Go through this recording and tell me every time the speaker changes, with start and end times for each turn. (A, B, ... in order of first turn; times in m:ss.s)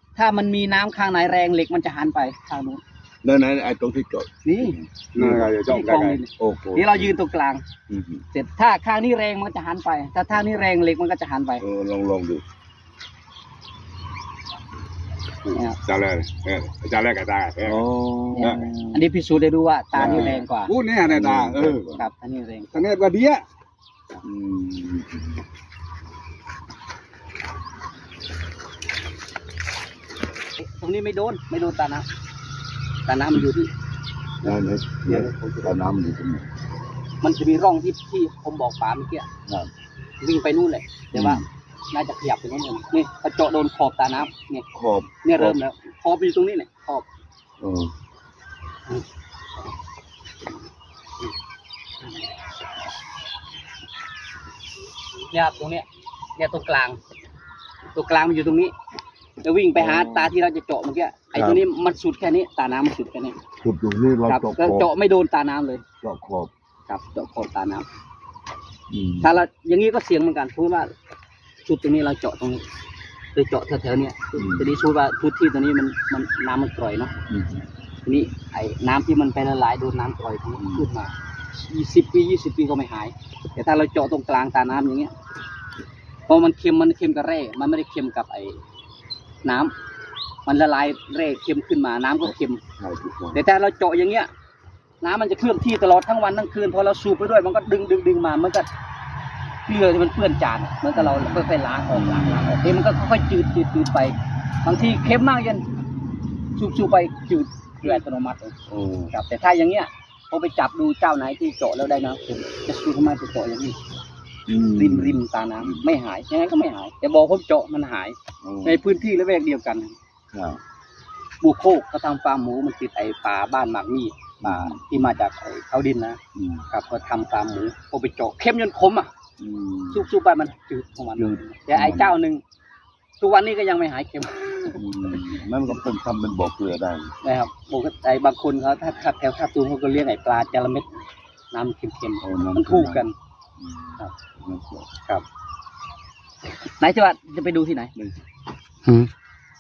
0:00.2-0:02.8 A
0:03.2-0:05.5 B
0:04.4-0:04.8 A
0:05.1-0:06.2 C
0:05.7-0:07.6 A
0:06.4-0:07.1 B
0:07.9-0:08.2 B
0:08.3-0:11.6 A
0:11.6-0:12.4 B
0:15.4-0:17.8 C
0:17.6-0:19.0 B
0:18.3-0:20.8 A
0:18.4-0:18.7 C
0:20.0-0:20.4 B
0:20.0-0:21.9 C
0:21.0-0:22.0 B
0:21.9-0:22.7 A
0:22.7-0:23.4 C
0:24.2-0:25.4 B
0:30.6-0:32.1 A
0:33.1-0:33.7 A
0:34.4-0:36.5 B
0:35.1-0:35.7 C
0:37.2-0:39.3 A
0:40.2-0:44.7 A
0:41.1-0:41.5 B
0:44.7-0:45.6 B
0:45.2-0:47.1 A
0:47.6-0:47.9 B
0:55.3-0:55.9 A
0:56.4-0:57.0 A
0:57.9-0:58.7 A
0:59.4-1:03.4 A
0:59.8-1:00.3 B
1:01.4-1:01.6 B
1:03.6-1:04.9 B
1:04.3-1:05.8 A
1:06.0-1:06.5 B
1:06.9-1:07.9 A
1:08.9-1:09.3 B
1:09.2-1:10.9 A
1:11.6-1:12.6 A
1:13.4-1:17.1 A
1:14.4-1:14.7 B
1:17.3-1:17.7 B
1:18.0-1:25.1 A
1:20.6-1:20.9 B
1:26.3-1:28.6 A
1:29.4-1:29.7 A
1:30.5-1:32.6 A
1:32.8-1:33.4 B
1:33.3-1:34.3 A
1:35.0-1:38.7 A
1:39.7-1:45.6 A
1:40.9-1:42.6 B
1:46.6-1:48.6 A
1:48.7-1:49.1 B
1:49.1-1:53.8 A
1:54.5-1:55.9 B
1:54.7-2:00.0 A
1:58.4-1:58.8 B
2:00.3-2:00.6 B
2:01.4-2:09.1 A
2:04.4-2:04.8 B
2:06.4-2:06.7 B
2:09.4-2:10.1 B
2:09.9-2:12.4 A
2:11.2-2:12.2 B
2:13.2-2:14.8 A
2:14.8-2:17.1 B
2:17.2-2:20.9 A
2:21.5-2:23.1 A
2:22.2-2:23.1 B
2:23.6-2:24.9 B
2:26.8-2:27.9 A
2:28.8-2:29.1 A